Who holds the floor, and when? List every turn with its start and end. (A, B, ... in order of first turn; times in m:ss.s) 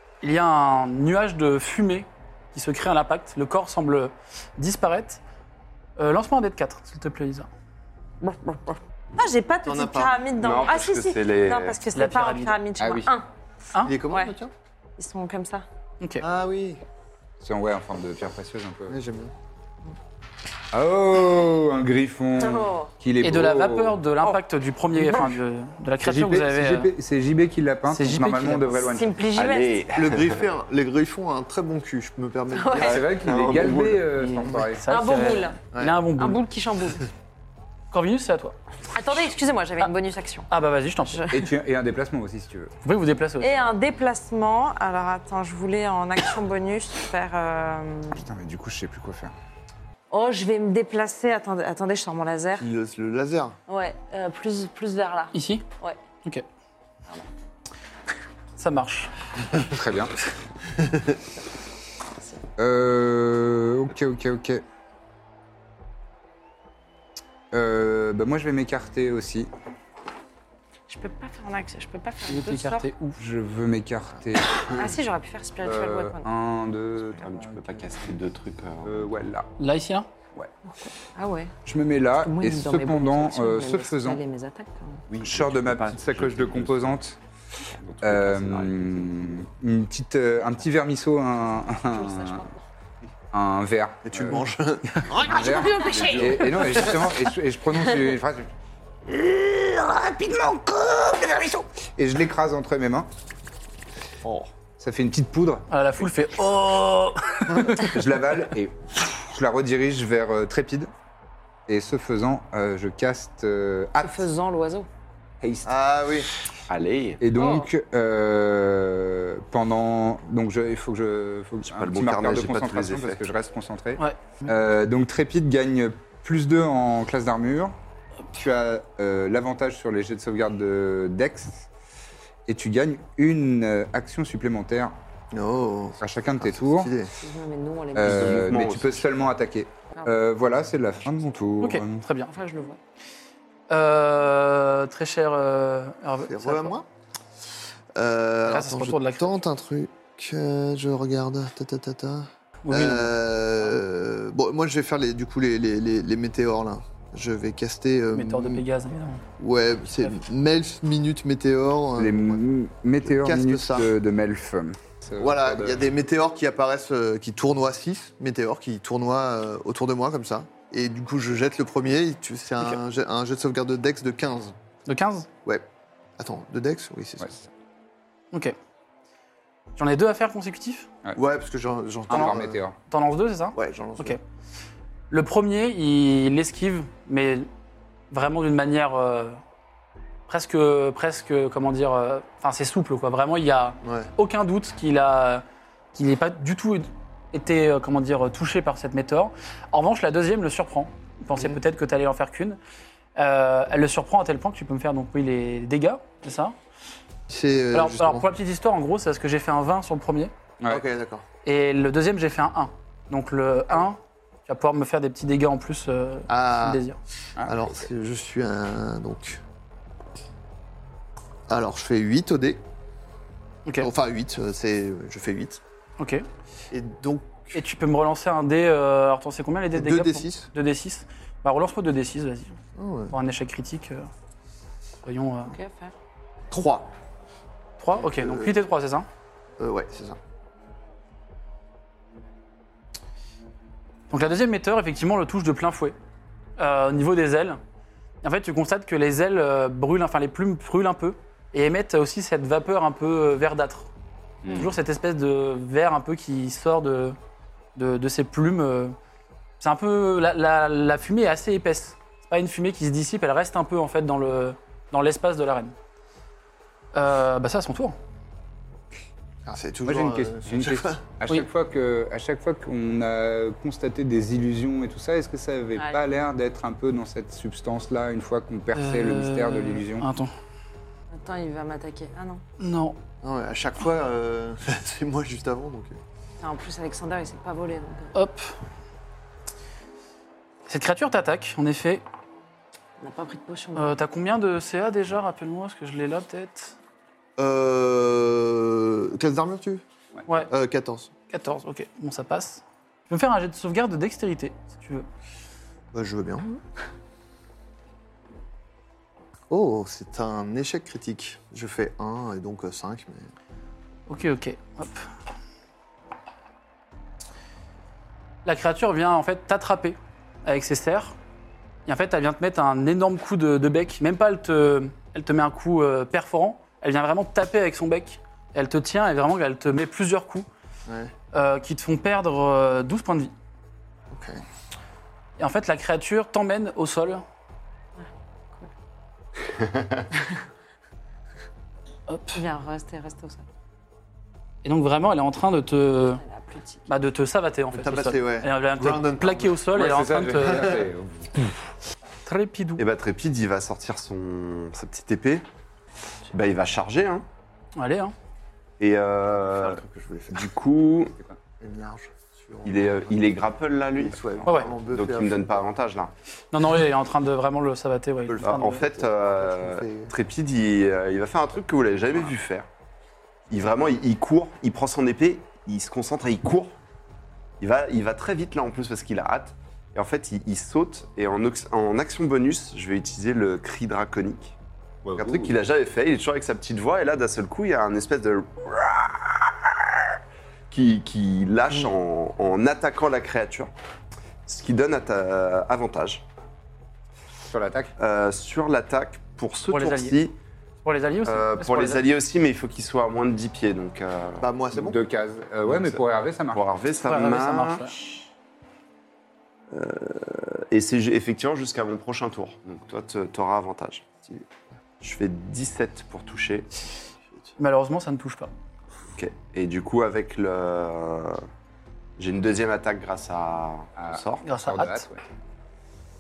0:00.2-0:05.2 A
0:06.0-0:07.5 A
0:08.2-0:13.3 B
0:09.6-0:10.2 C
0:10.4-0:11.8 D
0:11.9-0:12.6 A
0:12.8-0:13.1 E
0:13.8-0:14.5 C
0:14.1-0:14.4 B
0:15.0-0:15.6 B
0:16.0-0:16.3 A
0:16.2-0:16.8 C
0:17.4-0:19.0 E
0:18.9-0:19.3 C
0:20.7-0:24.0 E
0:22.4-0:22.9 B
0:23.2-0:26.9 A
0:26.0-0:29.2 E
0:27.9-0:28.9 A
0:28.8-0:29.8 B
0:29.3-0:30.5 D
0:30.0-0:33.0 C
0:32.5-0:33.0 B
0:32.8-0:34.8 E
0:32.8-0:34.4 D
0:34.7-0:36.4 A
0:34.9-0:37.1 B
0:35.7-0:36.0 C
0:37.9-0:38.6 A
0:38.9-0:40.5 B
0:40.5-0:41.2 A
0:41.1-0:41.5 B
0:41.3-0:42.7 E
0:42.8-0:43.6 A
0:43.4-0:48.3 B
0:48.1-0:49.3 E
0:50.1-0:52.7 B
0:52.6-0:53.6 C
0:53.7-0:56.0 B
0:55.3-0:55.6 A
0:58.6-0:59.1 A
0:59.5-1:00.2 E
1:02.6-1:04.6 E
1:07.5-1:09.5 E
1:10.9-1:12.9 B
1:12.3-1:13.2 A
1:13.2-1:15.0 E
1:14.6-1:16.3 B
1:15.6-1:18.0 E
1:17.2-1:19.1 D
1:18.8-1:19.5 E
1:19.6-1:20.1 A
1:20.7-1:21.5 B
1:21.6-1:24.2 E
1:22.2-1:25.0 B
1:25.1-1:27.0 D
1:25.2-1:27.2 E
1:27.8-1:29.4 D
1:28.0-1:32.5 E
1:31.9-1:32.6 B
1:33.3-1:34.5 E
1:34.0-1:35.8 C
1:35.2-1:38.5 E
1:35.9-1:36.4 D
1:35.9-1:36.2 B
1:39.1-1:41.6 F
1:42.0-1:43.1 E
1:44.2-1:44.5 C
1:44.8-1:45.7 E
1:45.7-1:47.9 A
1:47.6-1:50.9 E
1:51.7-1:54.3 E
1:54.0-1:54.9 B
1:55.4-1:55.8 E
1:55.6-1:56.3 C
1:56.7-1:57.2 D
1:57.2-2:07.8 E
1:57.3-1:57.7 B
2:01.6-2:03.3 D
2:08.3-2:11.7 E
2:12.5-2:15.0 E
2:15.3-2:17.1 C
2:16.0-2:16.9 E
2:17.2-2:18.5 B
2:18.0-2:22.0 E
2:18.0-2:19.1 D
2:21.6-2:22.3 A
2:22.3-2:22.8 B
2:23.7-2:26.8 A
2:26.2-2:26.9 C
2:28.0-2:38.6 C
2:28.5-2:29.4 A
2:32.6-2:33.2 A
2:38.1-2:39.2 A
2:39.4-2:42.4 C
2:42.0-2:45.9 E
2:43.0-2:43.9 C
2:45.2-2:54.6 C
2:54.9-2:55.3 A
2:56.2-2:57.3 C
2:57.2-2:57.5 E
2:59.8-3:00.9 A
3:01.2-3:02.6 C
3:02.1-3:02.8 E
3:02.9-3:04.2 A
3:03.6-3:04.2 C
3:05.1-3:07.5 A
3:08.1-3:09.4 A
3:10.3-3:15.4 A
3:13.8-3:14.1 C
3:16.0-3:22.6 A
3:23.2-3:26.6 A
3:27.3-3:28.3 C
3:27.7-3:30.3 A
3:30.7-3:31.2 C
3:31.4-3:37.0 A
3:36.3-3:36.8 C
3:37.4-3:37.9 E
3:37.4-3:39.4 C
3:41.5-3:42.6 C
3:43.8-3:45.6 C
3:46.0-3:46.3 A
3:46.7-3:47.6 C
3:47.5-3:52.6 A
3:49.7-3:50.5 C
3:52.8-3:53.2 C
3:53.1-3:54.1 A
3:55.0-3:55.6 A
3:55.4-3:55.9 B
3:56.5-3:56.9 C
3:57.8-3:59.1 A
3:58.0-3:58.6 C
3:59.6-4:00.2 C
4:04.1-4:06.0 A
4:06.6-4:07.6 A
4:08.2-4:13.9 A
4:14.5-4:17.2 A
4:17.8-4:19.0 A
4:19.6-4:25.7 A
4:26.9-4:28.0 A
4:29.5-4:31.0 C
4:29.9-4:40.1 E
4:35.8-4:36.0 B
4:38.8-4:40.3 A
4:41.1-4:42.4 B
4:42.6-4:43.0 A
4:43.2-4:46.0 C
4:46.4-4:48.1 B
4:48.1-4:48.6 A
4:50.7-4:52.0 A
4:53.0-4:54.0 B
4:53.8-4:56.8 A
4:57.4-4:59.8 C
5:00.5-5:01.1 C
5:01.3-5:05.1 A
5:05.9-5:06.6 C
5:09.5-5:13.3 C
5:14.1-5:15.1 A
5:18.4-5:21.2 A
5:21.9-5:30.5 A
5:30.9-5:31.1 C
5:31.3-5:33.3 A
5:34.1-5:34.4 C
5:35.4-5:37.2 A
5:38.0-5:38.7 B
5:42.1-5:42.4 A
5:42.3-5:43.5 B
5:44.6-5:46.2 A
5:46.1-5:46.9 B
5:46.9-5:50.7 A
5:47.7-5:49.7 C
5:49.7-5:51.7 E
5:50.4-5:50.9 C
5:52.3-5:52.8 A
5:52.8-5:55.4 D
5:56.3-5:57.3 D
5:57.8-5:58.1 A
5:58.8-6:01.2 D
5:59.5-6:00.5 C
6:01.6-6:05.7 C
6:02.6-6:06.1 D
6:06.5-6:08.8 A
6:08.4-6:12.7 D
6:08.4-6:10.1 C
6:13.5-6:16.8 D
6:17.6-6:24.6 D
6:25.0-6:25.5 E
6:25.2-6:29.7 D
6:30.7-6:33.7 D
6:34.5-6:36.2 D
6:37.4-6:37.9 E
6:38.0-6:40.4 D
6:39.7-6:40.2 A
6:40.8-6:42.0 A
6:41.2-6:44.5 D
6:44.4-6:45.0 C
6:44.7-6:46.6 E
6:45.7-6:48.3 D
6:47.0-6:48.0 A
6:49.7-6:54.2 D
6:55.0-6:56.8 D
6:57.6-6:58.5 A
6:59.2-7:01.4 D
7:02.2-7:04.4 D
7:04.0-7:05.2 E
7:04.4-7:05.1 A